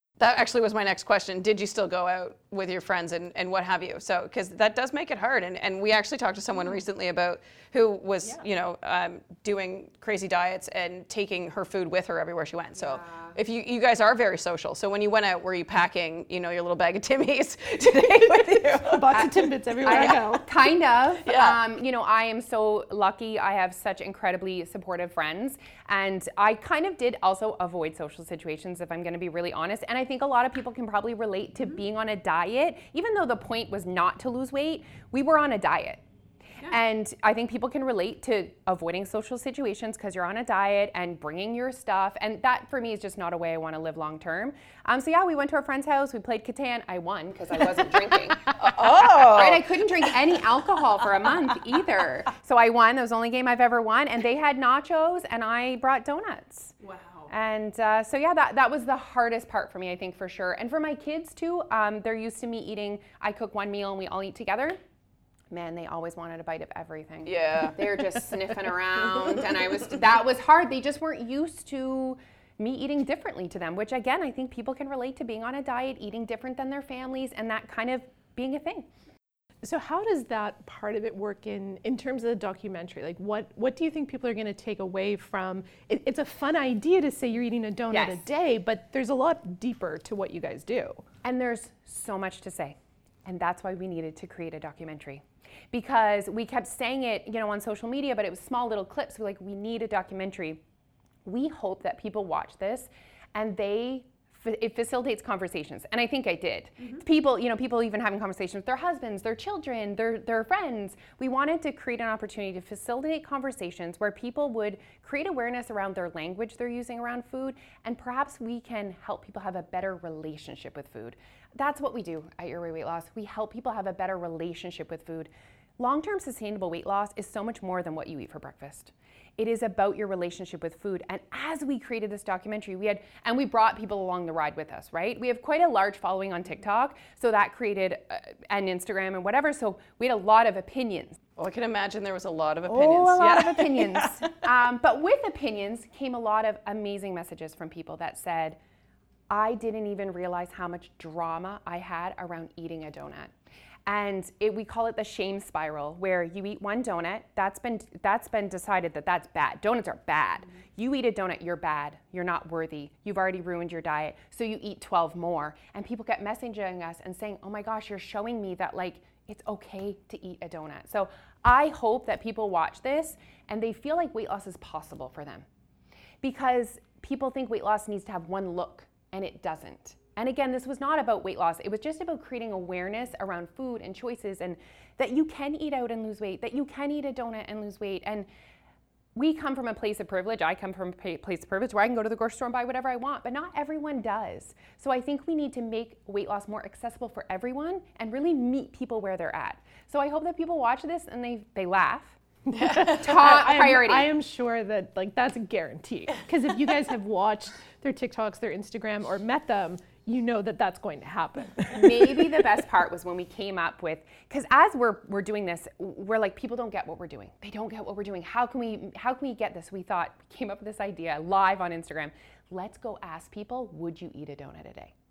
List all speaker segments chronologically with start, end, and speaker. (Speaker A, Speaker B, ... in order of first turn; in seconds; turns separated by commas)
Speaker A: 0.2-20.4, Speaker B: 12.9-13.3, Speaker C: 18.8-20.5, Speaker B: 19.1-36.0, Speaker A: 21.2-21.6, Speaker B: 36.6-56.8, Speaker A: 48.5-50.1, Speaker A: 56.8-57.3, Speaker B: 57.3-64.8, Speaker B: 65.5-78.9, Speaker A: 67.2-68.4, Speaker A: 69.1-69.8, Speaker C: 79.6-91.0, Speaker B: 87.9-88.2, Speaker B: 91.2-100.6, Speaker B: 101.2-141.2, Speaker A: 141.4-144.3, Speaker B: 142.7-148.6, Speaker B: 149.3-153.3, Speaker B: 153.9-175.4, Speaker B: 176.2-188.3, Speaker B: 189.1-202.2, Speaker C: 202.5-212.4, Speaker A: 202.6-202.9, Speaker B: 202.8-204.1, Speaker B: 211.7-224.9